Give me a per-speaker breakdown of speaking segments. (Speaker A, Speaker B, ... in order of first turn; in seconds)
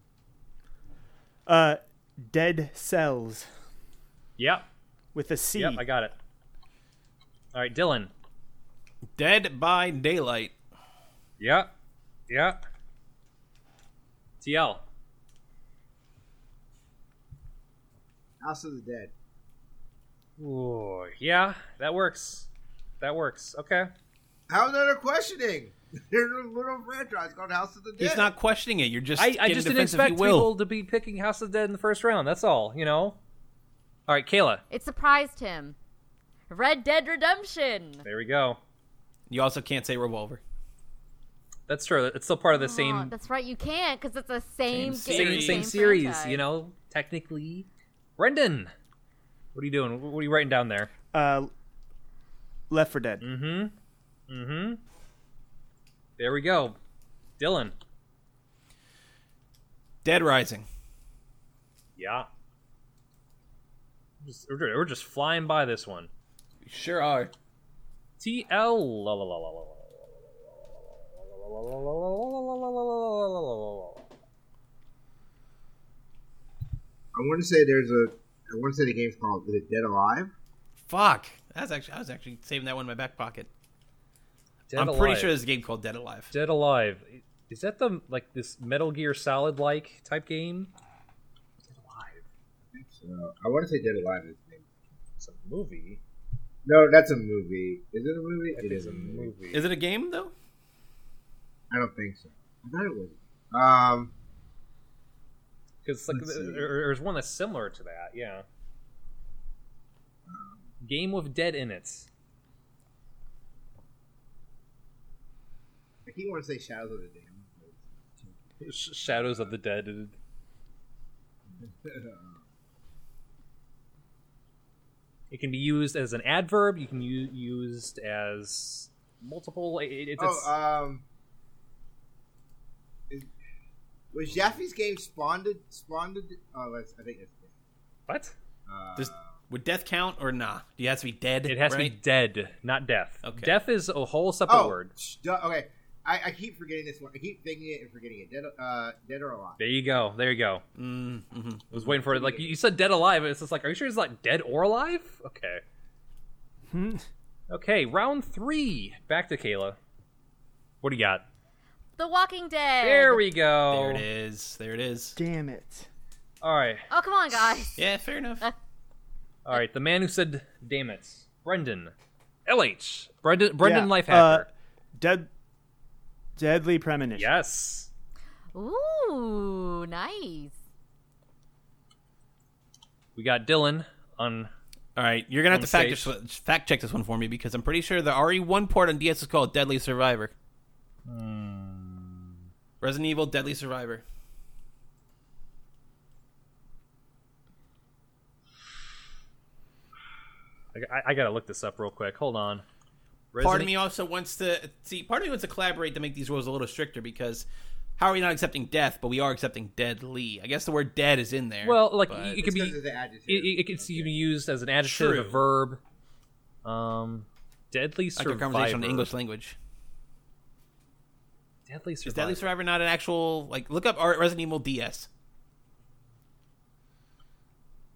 Speaker A: 1.5-3.5, 5.1-5.8, 51.1-51.5, 52.7-53.2, 156.7-157.0, 165.2-165.9, 173.6-175.3, 176.3-177.3
Speaker B: 4.4-4.6, 5.5-6.1, 7.5-8.1, 11.4-11.7, 12.3-12.6, 14.4-14.8, 20.4-22.5, 23.0-23.9, 29.2-33.2, 34.1-34.6, 38.0-38.6, 41.7-43.1, 45.0-47.7, 48.2-48.7, 49.5-50.9, 53.2-53.7, 54.3-54.8, 56.2-56.8, 57.4-57.7, 62.0-62.3, 64.2-66.1, 68.2-74.0, 84.7-85.3, 86.3-90.7, 91.6-92.2, 95.2-96.0, 98.5-99.7, 105.8-108.4, 110.8-112.1, 118.6-120.1, 125.3-130.5, 138.1-138.3, 141.5-145.1, 149.6-150.6, 151.7-155.6, 157.5-159.8, 160.8-161.2, 162.8-164.0, 166.4-166.8, 169.4-171.9, 172.4-174.5, 177.2-177.9, 183.2-184.5, 185.5-186.1, 191.1-192.4, 200.7-202.6, 203.3-203.7, 211.6-212.8, 213.3-215.8, 216.6-219.1, 221.7-222.5
Speaker C: 9.2-10.5, 28.0-30.5, 39.3-40.4, 44.7-45.7, 60.0-60.6, 66.6-67.3, 80.9-83.5, 84.7-86.3, 99.5-100.3, 138.9-141.9, 143.2-143.5, 150.8-151.9, 163.7-165.2, 167.8-168.5, 184.9-190.3, 192.8-194.0, 203.4-207.4, 208.0-212.4, 214.8-215.4, 218.2-219.6, 222.0-225.1
Speaker D: 18.4-19.1, 24.5-28.3, 77.1-80.3, 92.7-94.7, 96.6-99.3, 101.7-104.1, 106.1-106.7, 110.3-110.7, 116.0-119.4, 121.6-122.4, 130.2-131.0, 134.1-137.5, 138.7-139.3, 144.5-149.6, 152.0-152.6, 212.3-214.3
Speaker E: 34.7-35.8, 36.5-38.0, 42.5-46.4, 162.0-163.2, 166.9-167.8, 178.5-180.5